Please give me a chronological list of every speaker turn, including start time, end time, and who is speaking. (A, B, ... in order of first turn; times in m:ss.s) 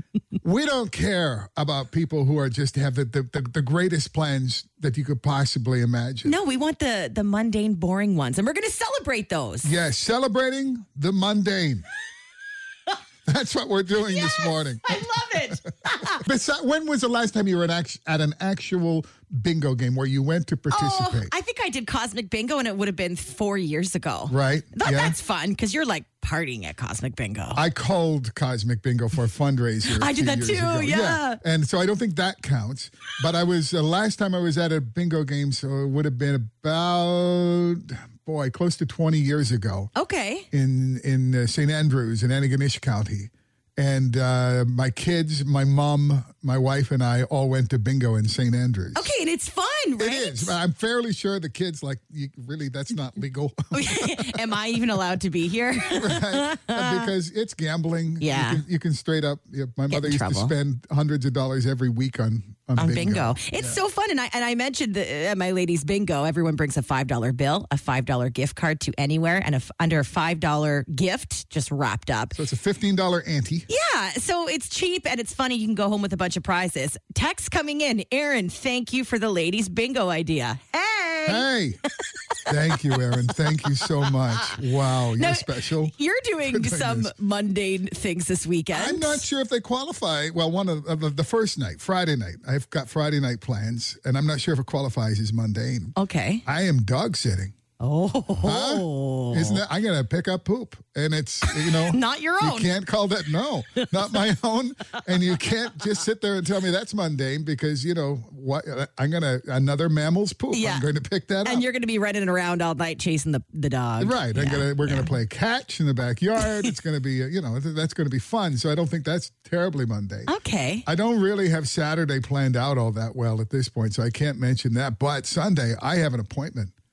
0:00.4-0:06.4 A
0:06.2-0:09.7 B
0:09.6-0:11.8 A
0:13.2-0:15.5 A
0:14.0-0:16.2 B
0:16.1-0:21.3 A
0:20.7-0:27.6 B
0:24.3-0:25.2 A
0:27.5-0:39.9 A
0:29.9-0:31.4 B
0:39.9-0:40.5 B
0:40.5-0:49.1 A
0:48.9-0:50.5 B
0:50.0-0:54.5 A
0:53.7-0:57.1 B
0:55.8-1:03.8 A
0:58.2-0:58.6 B
0:59.9-1:00.5 B
1:02.8-1:12.4 B
1:12.3-1:13.7 A
1:13.7-1:21.5 B
1:21.2-1:21.8 A
1:22.5-1:27.1 A
1:25.2-1:29.2 B
1:28.7-1:37.5 A
1:36.0-1:36.4 B
1:37.8-1:39.6 B
1:38.4-1:51.6 A
1:41.9-1:42.7 B
1:50.5-1:50.8 B
1:51.4-1:55.1 B
1:54.0-2:00.3 A
2:00.3-2:00.8 B
2:00.8-2:06.7 A